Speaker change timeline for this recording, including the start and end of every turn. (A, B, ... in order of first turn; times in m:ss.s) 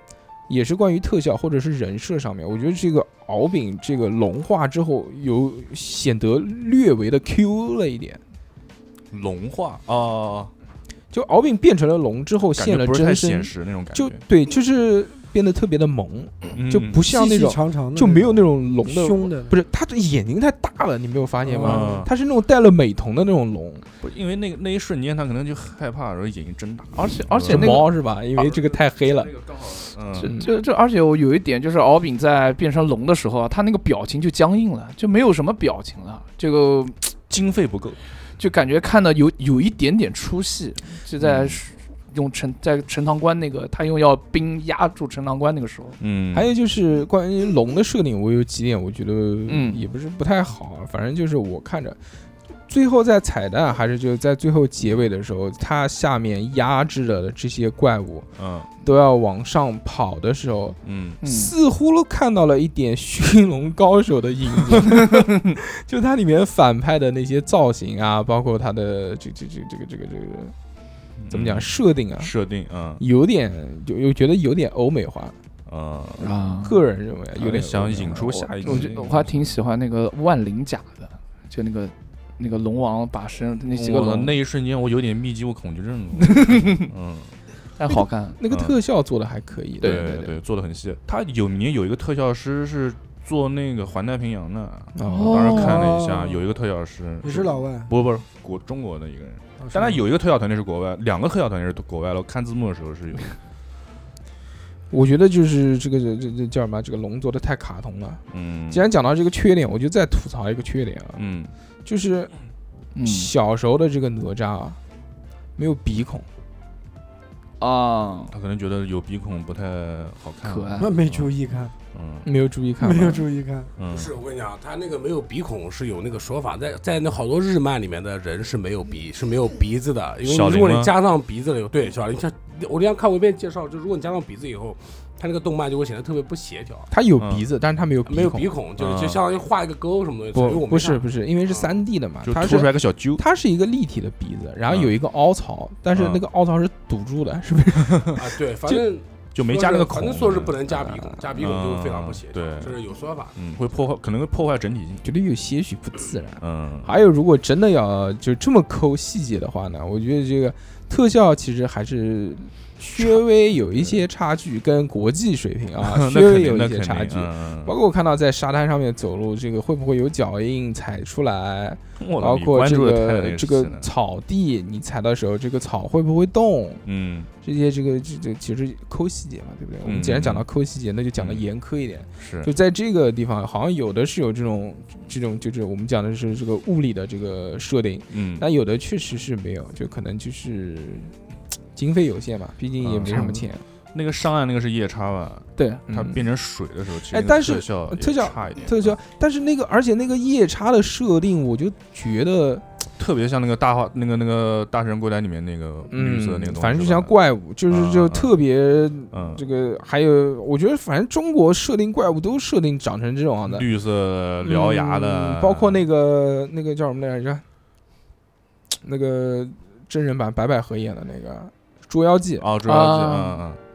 0:00.5-0:08.2 A
0:09.1-0:10.5 B
0:11.1-0:23.8 A
0:12.6-0:14.2 B
0:16.5-0:17.0 B
0:17.0-0:19.5 C
0:21.4-0:21.9 C
0:21.6-0:22.1 B
0:24.0-0:30.3 B
0:27.0-0:27.9 D
0:27.4-0:29.3 A
0:30.1-0:37.1 D
0:30.2-0:30.5 A
0:37.3-0:38.0 B
0:38.4-0:46.0 D
0:41.2-0:41.6 B
0:46.0-0:46.5 B
0:46.3-0:52.0 A
0:49.5-0:49.8 D
0:52.7-0:58.3 A
0:58.4-0:58.7 B
0:58.8-1:10.5 A
1:00.8-1:01.2 B
1:01.2-1:01.5 D
1:11.2-1:13.0 B
1:11.3-1:12.3 A
1:13.0-1:15.4 A
1:15.6-1:16.3 B
1:16.2-1:16.8 D
1:16.6-1:18.9 A
1:17.3-1:19.4 B
1:18.6-1:24.3 D
1:23.7-1:27.3 B
1:26.2-1:26.9 D
1:27.8-1:28.4 D
1:27.9-1:30.2 A
1:28.5-1:28.8 B
1:29.8-1:30.3 D
1:29.8-1:43.4 B
1:35.0-1:35.9 A
1:35.1-1:35.9 D
1:35.5-1:36.3 C
1:37.2-1:37.9 C
1:39.6-1:40.0 C
1:44.9-1:51.2 A
1:48.3-1:48.9 B
1:51.1-1:51.5 B
1:51.8-1:52.3 A
1:52.9-1:53.3 D
1:53.0-1:54.8 A
1:55.6-1:56.2 A
1:57.6-1:58.3 D
1:58.3-2:01.3 B
2:00.4-2:00.9 D
2:00.8-2:01.7 C
2:01.9-2:02.2 B
2:02.2-2:03.2 A
2:02.8-2:03.7 C
2:03.8-2:04.1 B
2:03.9-2:16.9 E
2:10.2-2:10.9 B
2:16.9-2:18.5 A
2:17.2-2:17.5 B
2:18.0-2:21.8 E
2:18.8-2:19.2 B
2:20.3-2:28.8 A
2:22.2-2:23.2 B
2:24.7-2:24.9 B
2:25.9-2:26.2 B
2:28.1-2:33.3 E
2:29.3-2:30.6 B
2:30.7-2:31.2 A
2:31.3-2:32.8 B
2:33.3-2:35.0 B
2:35.0-2:56.8 A
2:36.4-2:36.9 B
2:43.0-2:44.0 B
2:45.8-2:47.7 B
2:52.0-2:53.9 B
2:56.8-2:57.3 B
2:57.4-3:11.1 A
2:59.8-3:00.4 B
3:01.2-3:01.4 B
3:02.2-3:02.5 B
3:08.1-3:08.4 B
3:11.7-3:13.6 A
3:12.8-3:13.4 B
3:13.1-3:13.4 D
3:13.9-3:19.0 B
3:15.6-3:15.8 D
3:15.9-3:16.2 A
3:17.1-3:22.6 A
3:23.0-3:27.2 B
3:25.9-3:33.6 A
3:27.7-3:28.4 B
3:29.1-3:29.4 B
3:33.5-3:35.8 B
3:34.4-3:37.4 A
3:38.8-3:42.5 A
3:42.4-3:43.6 B
3:42.6-3:43.4 D